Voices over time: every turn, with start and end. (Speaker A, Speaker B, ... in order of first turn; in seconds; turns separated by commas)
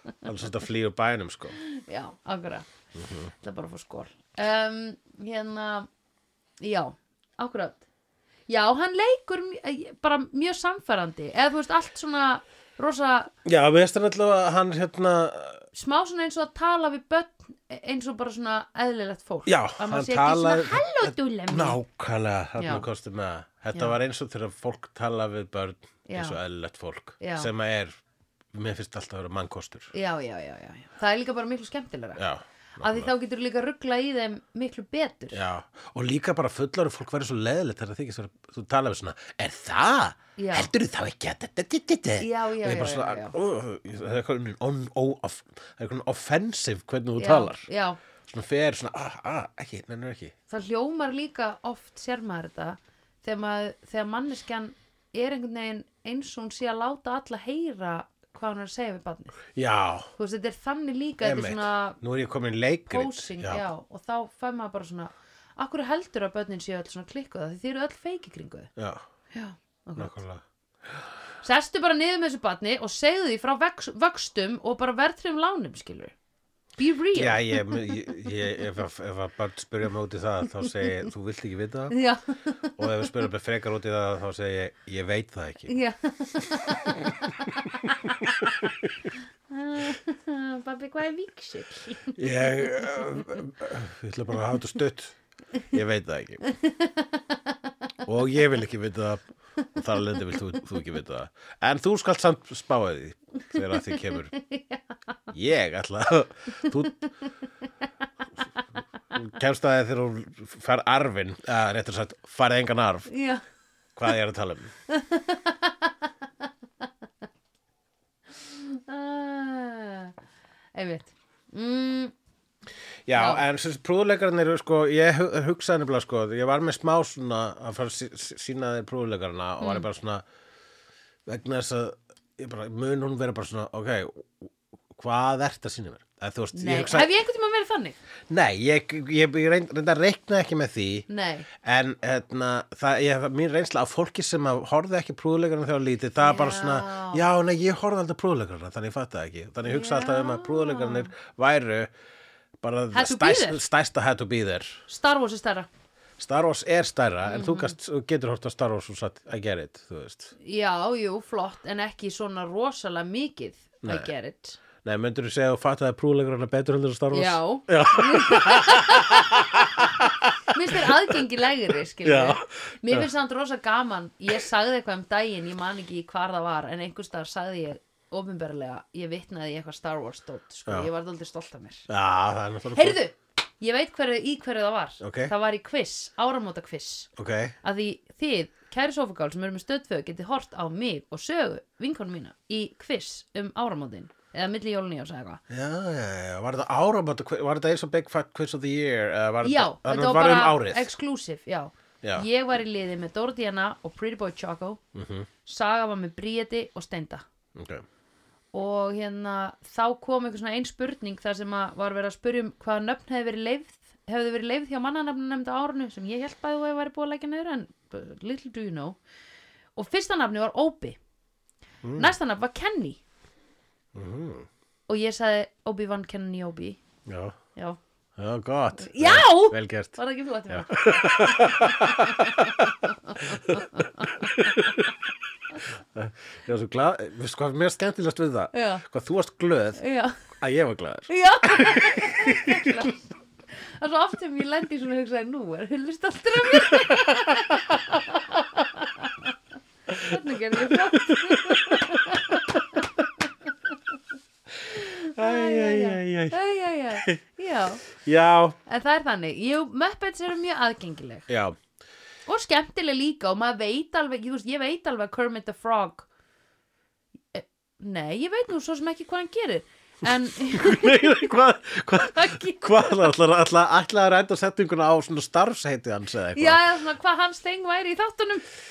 Speaker A: 0.2-1.6, Speaker B: 1.6-2.7, Speaker A: 3.0-3.3, Speaker B: 3.4-5.9, Speaker B: 6.6-7.8, Speaker B: 8.5-13.3, Speaker A: 13.4-15.6, Speaker B: 15.7-21.8, Speaker A: 19.4-27.9, Speaker B: 22.6-22.9, Speaker B: 26.1-26.4, Speaker B: 27.2-27.5, Speaker A: 28.5-29.9, Speaker B: 29.9-32.2, Speaker A: 32.1-33.1, Speaker B: 32.8-35.4, Speaker A: 35.3-47.7, Speaker B: 40.4-40.7, Speaker B: 42.2-43.4, Speaker B: 47.2-48.0, Speaker A: 48.3-50.3, Speaker B: 50.5-59.4, Speaker A: 59.5-60.1, Speaker B: 60.2-62.0, Speaker A: 61.2-63.7, Speaker B: 62.9-68.7, Speaker A: 68.8-69.0, Speaker B: 69.3-70.2, Speaker A: 70.0-70.4, Speaker B: 71.4-76.1, Speaker B: 76.8-77.8, Speaker A: 77.1-82.0, Speaker B: 81.9-82.8, Speaker A: 82.8-85.7, Speaker B: 85.7-87.9, Speaker B: 89.5-92.2, Speaker A: 92.2-96.4, Speaker B: 96.5-97.4, Speaker A: 98.0-104.3, Speaker B: 103.7-104.8, Speaker A: 105.3-107.0, Speaker A: 109.1-113.1, Speaker B: 113.1-113.4, Speaker A: 114.0-114.7, Speaker B: 114.9-115.9, Speaker B: 118.3-120.1, Speaker B: 120.7-122.1, Speaker A: 123.1-130.2, Speaker B: 123.1-123.4, Speaker B: 129.6-129.9, Speaker A: 131.2-137.1, Speaker B: 136.5-138.0, Speaker A: 138.3-151.9, Speaker B: 141.1-141.5, Speaker B: 146.2-147.2, Speaker B: 149.7-151.1, Speaker A: 152.6-154.8, Speaker B: 152.9-153.6, Speaker B: 154.9-155.7, Speaker A: 156.2-160.3, Speaker B: 157.2-157.7, Speaker B: 160.4-164.6, Speaker A: 163.8-164.1, Speaker A: 164.8-171.2, Speaker B: 167.1-181.9, Speaker A: 172.0-173.1, Speaker A: 181.9-183.0, Speaker B: 182.7-187.1, Speaker A: 185.0-185.3, Speaker A: 187.2-187.5, Speaker B: 187.6-195.4, Speaker A: 195.5-200.9, Speaker B: 199.4-204.8, Speaker A: 204.9-205.3, Speaker B: 205.4-207.2, Speaker A: 207.6-207.8, Speaker B: 208.5-219.0, Speaker B: 219.8-221.0, Speaker A: 221.8-222.1, Speaker B: 221.9-223.0, Speaker A: 223.9-224.5, Speaker B: 224.9-226.8, Speaker A: 227.1-227.4, Speaker A: 228.2-230.0, Speaker B: 228.8-234.8, Speaker A: 230.5-232.7, Speaker A: 233.2-234.9, Speaker A: 235.9-239.8, Speaker B: 238.5-238.8, Speaker B: 239.8-240.2, Speaker A: 240.3-242.8, Speaker B: 241.1-243.0, Speaker B: 243.6-249.3, Speaker A: 246.5-246.9, Speaker B: 249.9-252.4, Speaker A: 249.9-252.8, Speaker B: 254.7-257.9, Speaker A: 254.7-256.4, Speaker A: 256.9-257.2, Speaker A: 257.9-258.6, Speaker B: 258.6-261.3, Speaker A: 261.3-261.6, Speaker B: 262.3-266.1, Speaker B: 267.3-271.2, Speaker A: 270.5-276.6, Speaker B: 272.0-273.1, Speaker B: 276.4-278.4